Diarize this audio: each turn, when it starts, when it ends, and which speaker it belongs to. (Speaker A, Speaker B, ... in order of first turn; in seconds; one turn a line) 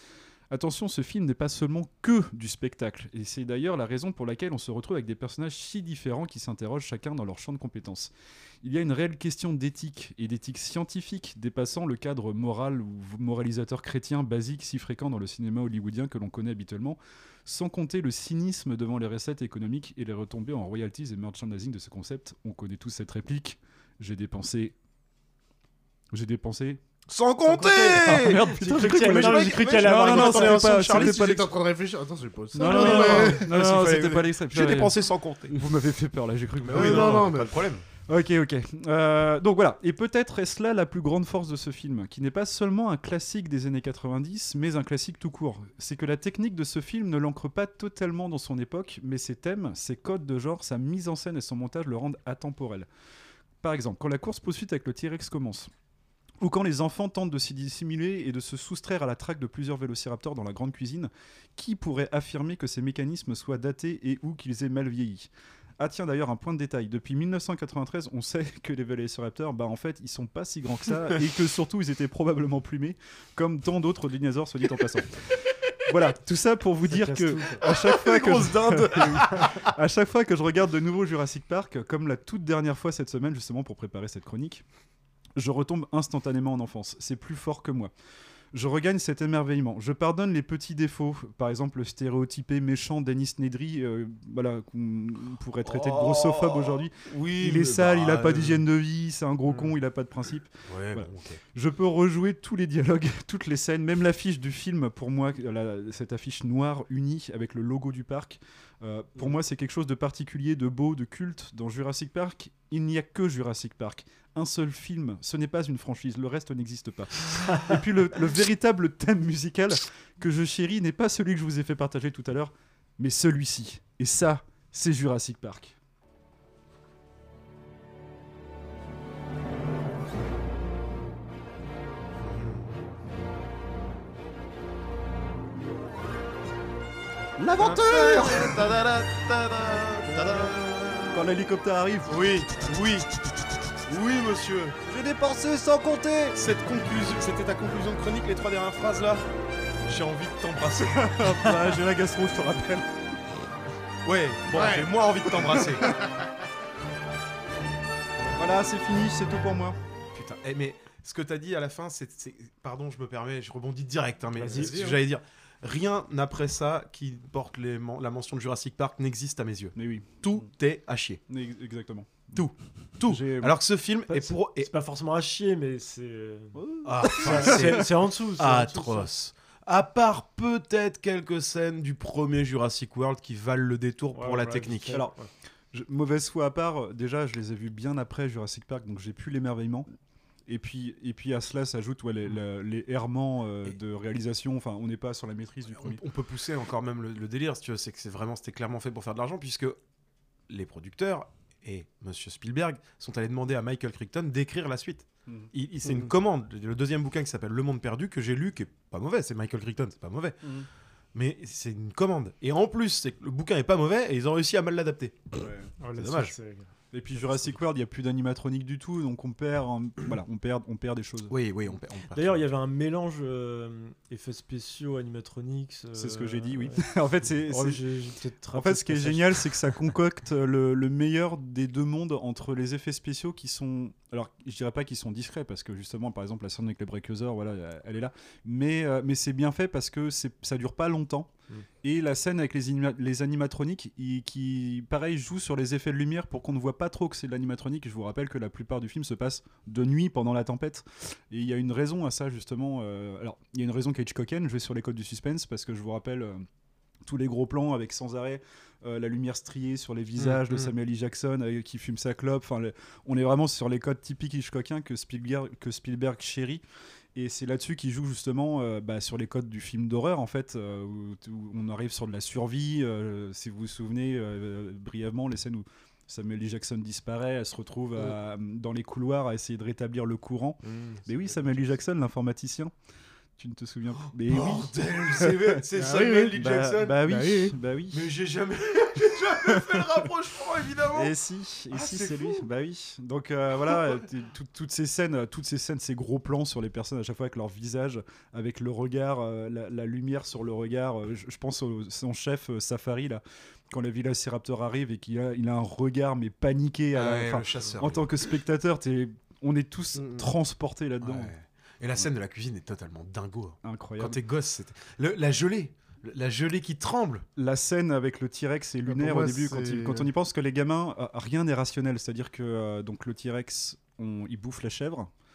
Speaker A: 0.5-8.1
Speaker A: 8.6-24.7
Speaker A: 26.1-26.8
Speaker B: 27.1-31.4
Speaker A: 27.6-31.4
Speaker C: 27.9-30.6
Speaker D: 30.8-33.5
Speaker A: 32.5-37.4
Speaker B: 32.6-35.6
Speaker B: 36.6-37.8
Speaker D: 36.6-37.7
Speaker A: 38.1-52.9
Speaker A: 53.6-55.7
Speaker A: 56.4-84.6
Speaker C: 76.9-77.6
Speaker B: 77.6-79.4
Speaker D: 78.6-79.0
Speaker A: 85.3-87.9
Speaker A: 88.5-125.7
Speaker B: 95.6-98.6
Speaker B: 100.7-101.4
Speaker C: 117.5-117.7
Speaker B: 132.2-132.7
Speaker A: 137.4-138.7
Speaker B: 137.6-141.2
Speaker A: 141.1-142.3
Speaker B: 142.1-143.1
Speaker B: 143.8-144.8
Speaker A: 144.9-146.3
Speaker B: 146.3-149.3
Speaker B: 149.8-151.5
Speaker A: 150.9-152.9
Speaker B: 154.0-155.9
Speaker D: 154.5-154.9
Speaker D: 155.8-156.3
Speaker A: 158.3-159.8
Speaker B: 160.1-171.2
Speaker C: 164.3-164.8
Speaker D: 164.5-165.0
Speaker A: 169.8-170.4
Speaker A: 171.3-172.4
Speaker B: 172.3-174.7
Speaker A: 173.1-173.5
Speaker C: 174.1-179.1
Speaker A: 176.5-177.8
Speaker B: 176.8-185.0
Speaker C: 184.1-185.3
Speaker A: 185.7-189.9
Speaker A: 190.5-196.0
Speaker B: 195.8-199.8
Speaker B: 200.5-210.5
Speaker B: 211.1-215.4
Speaker A: 215.4-215.7
Speaker C: 215.8-216.7
Speaker B: 215.9-216.3
Speaker A: 216.9-221.3
Speaker B: 221.3-222.4
Speaker C: 222.1-226.9
Speaker A: 225.9-227.8
Speaker C: 227.5-229.8
Speaker A: 228.5-241.3
Speaker A: 241.8-256.4
Speaker A: 257.0-266.6
Speaker B: 260.2-260.7
Speaker A: 267.1-282.7
Speaker D: 280.7-281.4
Speaker A: 283.4-285.6
Speaker B: 284.0-287.0
Speaker D: 285.7-287.6
Speaker A: 286.4-288.1
Speaker B: 287.9-291.1
Speaker A: 289.4-289.8
Speaker A: 290.9-311.3
Speaker B: 291.7-292.4
Speaker B: 306.9-308.2
Speaker D: 309.9-310.3
Speaker B: 311.0-317.2
Speaker A: 313.6-314.2
Speaker A: 317.4-325.1
Speaker D: 318.9-320.1